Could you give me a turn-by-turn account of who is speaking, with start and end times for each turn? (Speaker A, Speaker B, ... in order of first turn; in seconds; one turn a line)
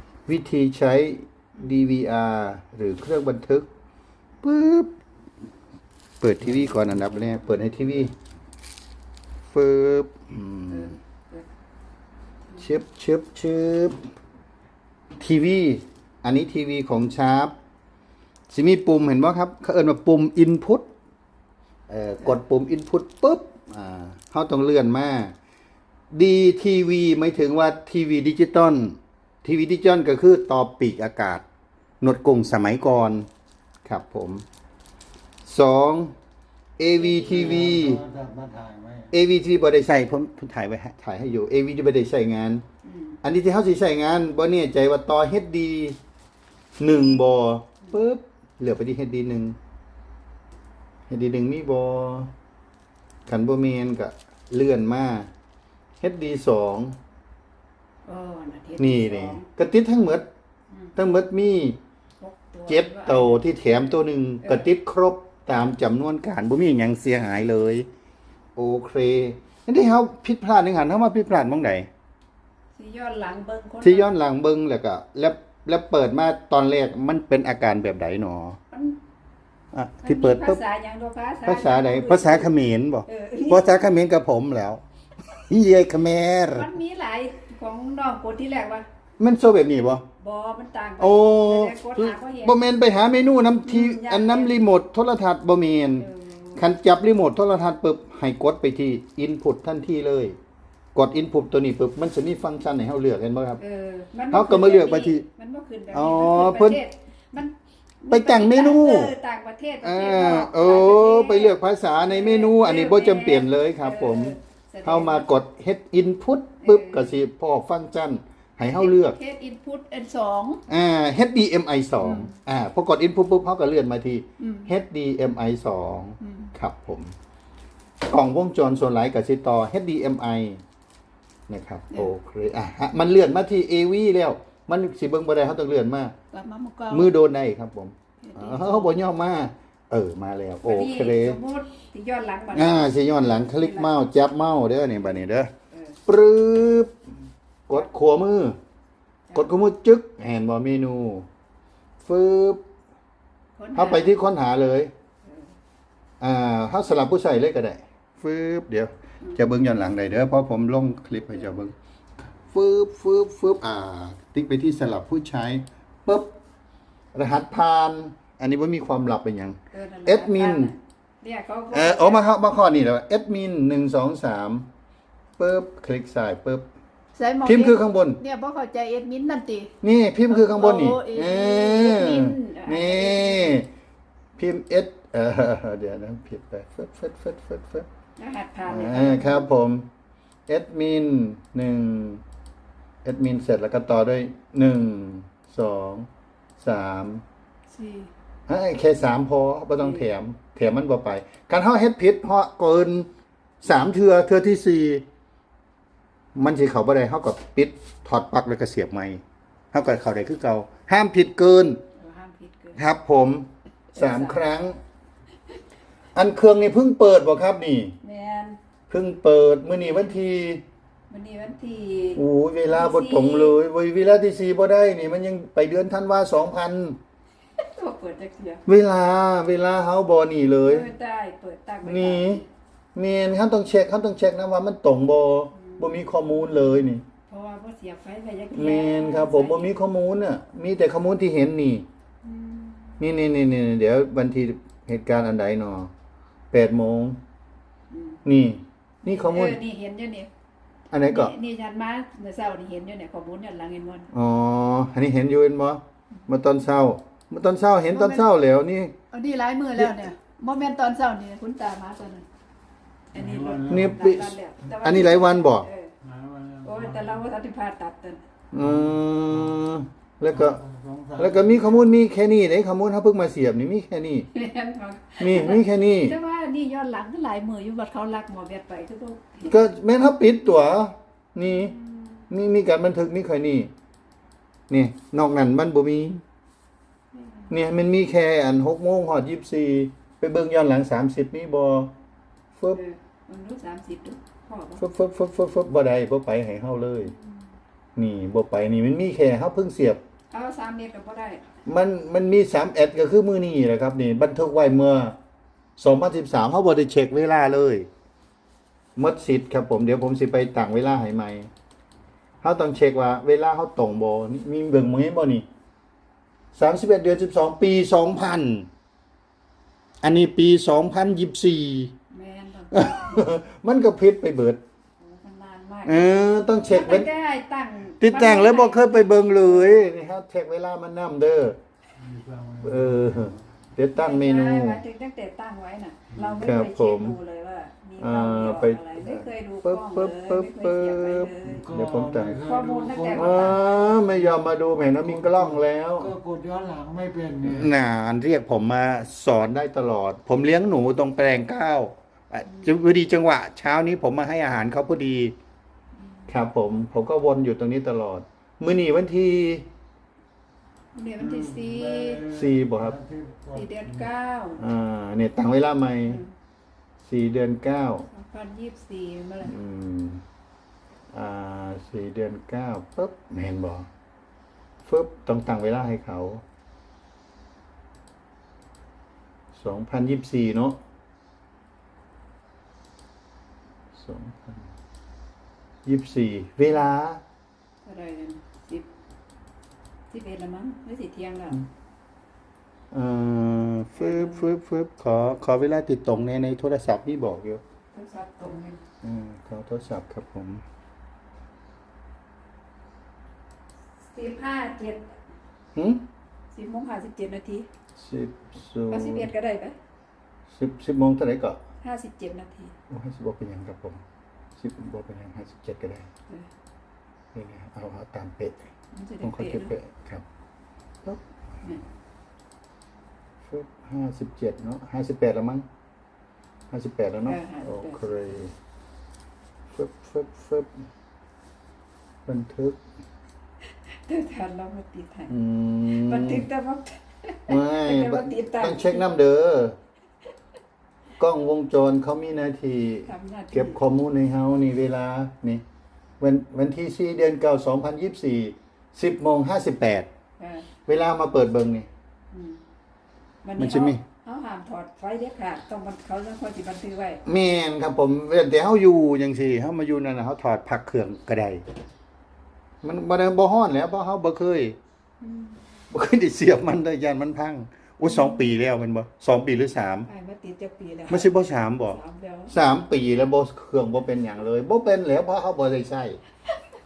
Speaker A: 0.3-3.7
Speaker A: 4.4-4.9
Speaker A: 6.2-8.1
Speaker A: 9.5-11.0
Speaker B: 10.7-11.5
Speaker A: 12.6-14.0
Speaker A: 15.2-17.5
Speaker A: 18.5-20.9
Speaker A: 21.9-25.3
Speaker A: 26.1-31.4
Speaker A: 32.0-33.3
Speaker A: 33.8-34.4
Speaker A: 35.4-36.1
Speaker A: 36.8-38.0
Speaker B: 37.0-37.4
Speaker C: 37.2-39.1
Speaker A: 39.1-42.6
Speaker B: 42.8-43.2
Speaker A: 43.2-46.0
Speaker A: 46.8-49.5
Speaker A: 51.1-52.3
Speaker A: 53.3-55.3
Speaker A: 56.0-57.0
Speaker B: 58.0-59.4
Speaker A: 58.8-60.3
Speaker A: 61.0-61.8
Speaker B: 62.2-63.9
Speaker A: 62.7-67.9
Speaker B: 64.4-64.7
Speaker A: 68.5-71.9
Speaker B: 72.7-74.1
Speaker A: 73.8-78.6
Speaker B: 78.7-79.0
Speaker A: 79.7-80.6
Speaker B: 80.0-82.5
Speaker A: 81.4-84.8
Speaker B: 83.1-83.9
Speaker A: 85.3-86.7
Speaker B: 86.5-88.9
Speaker A: 89.2-90.0
Speaker B: 90.2-92.6
Speaker A: 91.0-100.4
Speaker B: 93.6-94.6
Speaker B: 96.0-96.6
Speaker A: 100.9-103.6
Speaker B: 103.6-115.3
Speaker A: 104.3-105.2
Speaker A: 105.9-106.8
Speaker A: 108.1-109.1
Speaker A: 109.8-119.2
Speaker B: 116.6-117.2
Speaker B: 118.7-120.6
Speaker A: 120.7-127.1
Speaker B: 122.0-122.3
Speaker B: 124.4-124.7
Speaker B: 126.2-126.5
Speaker A: 128.0-130.6
Speaker A: 131.5-136.1
Speaker B: 136.3-137.1
Speaker A: 136.9-141.4
Speaker B: 138.2-139.0
Speaker B: 140.6-143.9
Speaker A: 142.5-145.5
Speaker B: 144.9-146.0
Speaker A: 146.1-146.9
Speaker A: 147.7-148.6
Speaker B: 149.3-149.6
Speaker A: 149.3-151.3
Speaker A: 152.0-152.6
Speaker B: 153.6-154.2
Speaker A: 153.7-154.9
Speaker B: 155.2-155.5
Speaker A: 156.2-161.7
Speaker A: 162.5-166.3
Speaker A: 167.1-170.7
Speaker B: 169.7-172.3
Speaker A: 171.7-174.7
Speaker A: 175.4-176.7
Speaker B: 177.1-179.7
Speaker A: 177.4-178.2
Speaker A: 179.8-183.7
Speaker B: 180.3-183.6
Speaker A: 184.4-187.9
Speaker B: 188.2-189.5
Speaker A: 188.7-189.9
Speaker A: 190.5-192.2
Speaker A: 193.0-196.1
Speaker A: 196.6-197.2
Speaker B: 197.7-198.1
Speaker A: 198.5-203.1
Speaker B: 199.8-200.1
Speaker A: 203.6-205.0
Speaker A: 206.3-209.2
Speaker A: 209.7-211.8
Speaker B: 211.9-212.8
Speaker A: 212.8-214.8
Speaker B: 213.9-214.4
Speaker A: 216.1-217.9
Speaker B: 218.0-218.6
Speaker A: 218.9-220.6
Speaker B: 219.7-220.2
Speaker B: 221.1-223.6
Speaker A: 222.1-227.0
Speaker B: 227.6-228.6
Speaker A: 228.7-230.9
Speaker B: 230.6-232.4
Speaker A: 231.8-232.4
Speaker A: 232.9-237.0
Speaker B: 235.6-239.7
Speaker A: 238.5-241.8
Speaker B: 242.2-243.0
Speaker A: 243.0-245.9
Speaker A: 246.5-247.2
Speaker B: 247.9-248.2
Speaker A: 248.2-249.6
Speaker B: 249.0-250.3
Speaker A: 250.9-251.3
Speaker B: 251.0-254.1
Speaker A: 254.1-258.9
Speaker B: 257.9-258.2
Speaker B: 259.1-262.2
Speaker A: 259.7-260.1
Speaker C: 263.1-264.0
Speaker B: 263.1-265.9
Speaker A: 263.7-265.7
Speaker C: 266.0-267.2
Speaker B: 266.6-268.2
Speaker A: 268.5-270.6
Speaker C: 268.6-269.6
Speaker C: 270.3-271.9
Speaker A: 271.2-274.3
Speaker B: 274.3-279.6
Speaker A: 275.2-276.1
Speaker A: 279.4-281.7
Speaker B: 281.4-282.2
Speaker A: 282.3-283.7
Speaker A: 284.7-286.2
Speaker B: 287.1-287.5
Speaker A: 287.5-291.9
Speaker A: 292.5-292.8
Speaker B: 292.7-294.8
Speaker A: 294.8-297.1
Speaker B: 297.0-297.4
Speaker A: 297.9-300.0
Speaker B: 300.3-301.5
Speaker A: 301.6-305.1
Speaker A: 305.8-307.9
Speaker A: 308.9-311.5
Speaker A: 312.4-315.4
Speaker A: 316.5-318.7
Speaker A: 320.0-321.9
Speaker B: 322.1-323.2
Speaker A: 322.7-324.6
Speaker B: 325.0-329.9
Speaker A: 325.8-327.1
Speaker A: 328.0-331.6
Speaker C: 332.0-333.3
Speaker A: 332.6-334.8
Speaker B: 333.9-341.6
Speaker A: 336.4-337.2
Speaker A: 338.0-342.4
Speaker C: 341.6-347.7
Speaker B: 342.4-343.8
Speaker A: 343.1-346.1
Speaker A: 347.4-355.3
Speaker B: 352.4-352.7
Speaker A: 356.3-359.7
Speaker B: 360.9-362.2
Speaker C: 361.2-364.0
Speaker A: 362.2-363.0
Speaker B: 363.5-364.6
Speaker A: 364.6-366.2
Speaker B: 366.0-366.3
Speaker A: 367.0-368.1
Speaker B: 368.1-369.5
Speaker A: 369.4-370.2
Speaker A: 371.1-373.9
Speaker A: 374.8-376.4
Speaker A: 379.5-380.8
Speaker A: 383.9-384.7
Speaker A: 385.8-387.2
Speaker B: 387.8-388.9
Speaker B: 390.1-391.6
Speaker A: 392.9-397.6
Speaker B: 393.9-394.5
Speaker B: 397.9-398.8
Speaker A: 399.0-400.6
Speaker B: 404.0-405.2
Speaker A: 405.7-406.0
Speaker B: 406.5-407.7
Speaker A: 408.0-409.3
Speaker B: 408.9-409.8
Speaker A: 410.5-411.6
Speaker B: 411.8-412.7
Speaker A: 412.9-414.0
Speaker A: 414.6-416.1
Speaker A: 417.3-418.6
Speaker B: 418.9-419.7
Speaker A: 419.2-420.2
Speaker A: 423.4-425.6
Speaker A: 426.7-428.5
Speaker B: 427.2-428.1
Speaker A: 429.7-430.7
Speaker A: 432.2-432.8
Speaker B: 434.1-435.3
Speaker A: 435.3-436.4
Speaker B: 435.9-439.1
Speaker A: 437.5-439.8
Speaker A: 441.2-445.6
Speaker B: 443.1-443.8
Speaker A: 446.2-450.1
Speaker B: 450.4-450.7
Speaker A: 450.8-451.9
Speaker B: 452.3-452.6
Speaker B: 453.4-457.2
Speaker A: 453.6-454.0
Speaker A: 457.2-461.6
Speaker A: 462.8-464.8
Speaker B: 465.2-465.6
Speaker A: 465.9-470.1
Speaker B: 468.0-468.5
Speaker B: 470.1-472.5
Speaker A: 471.1-476.2